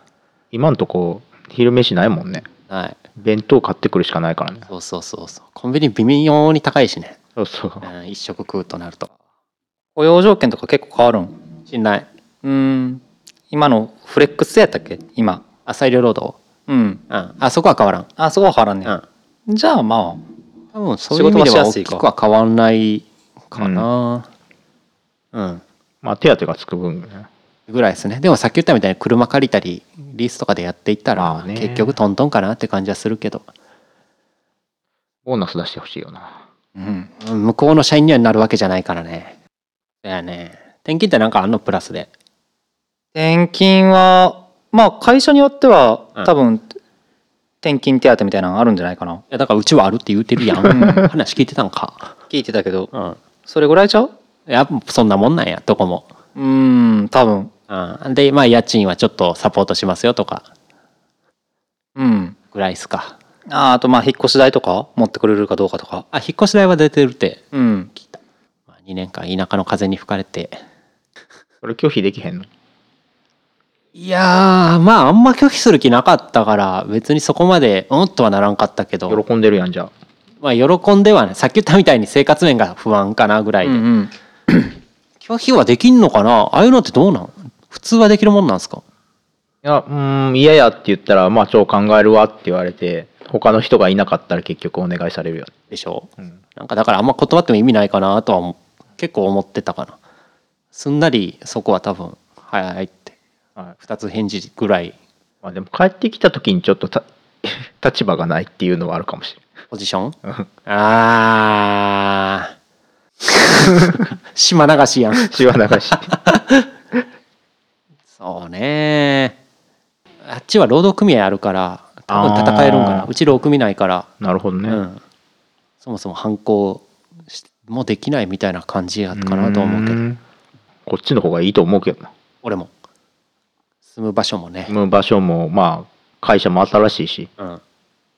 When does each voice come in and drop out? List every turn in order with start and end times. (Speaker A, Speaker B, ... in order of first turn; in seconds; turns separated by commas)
Speaker A: 0.5-2.5, Speaker B: 2.7-3.0, Speaker A: 3.2-4.7, Speaker B: 4.7-7.2, Speaker A: 7.4-7.9, Speaker B: 7.8-9.1, Speaker C: 10.0-11.4, Speaker B: 11.7-12.1, Speaker C: 12.4-15.4, Speaker B: 15.7-16.4, Speaker C: 16.7-17.0, Speaker B: 17.1-18.1, Speaker C: 18.2-19.0, Speaker C: 19.5-20.2, Speaker B: 20.7-24.3, Speaker C: 21.1-22.0, Speaker A: 23.6-23.9, Speaker B: 25.3-25.6, Speaker A: 26.0-27.3, Speaker B: 27.7-33.5, Speaker A: 31.2-31.9, Speaker A: 35.3-36.4, Speaker C: 36.8-37.1, Speaker B: 37.2-39.4, Speaker B: 40.0-42.1, Speaker C: 43.1-46.7, Speaker C: 47.6-49.2, Speaker B: 49.3-52.1, Speaker C: 50.6-51.0, Speaker C: 52.3-52.9, Speaker B: 52.9-53.2, Speaker C: 53.5-54.1, Speaker B: 54.5-56.1, Speaker C: 56.4-57.5, Speaker B: 57.7-60.5, Speaker C: 62.0-62.4, Speaker B: 62.5-63.1, Speaker C: 63.5-66.1, Speaker B: 66.1-67.4, Speaker C: 67.5-67.9, Speaker B: 68.8-70.6, Speaker A: 71.6-72.5, Speaker B: 74.0-79.2, Speaker A: 79.1-79.9, Speaker B: 80.4-83.9, Speaker C: 83.6-84.7, Speaker B: 85.2-88.8, Speaker A: 89.6-95.5, Speaker B: 95.7-100.0, Speaker B: 100.7-103.2, Speaker B: 103.8-105.0, Speaker A: 105.4-109.5, Speaker B: 109.7-112.5, Speaker B: 113.2-115.5, Speaker A: 115.2-116.1, Speaker B: 116.1-116.7, Speaker B: 118.2-119.4, Speaker B: 120.2-124.1, Speaker A: 122.1-123.1, Speaker A: 124.2-124.8, Speaker B: 124.7-125.0, Speaker B: 125.8-130.0, Speaker A: 129.2-130.2, Speaker A: 130.9-132.1, Speaker B: 132.4-132.7, Speaker B: 133.9-134.7, Speaker A: 134.7-137.3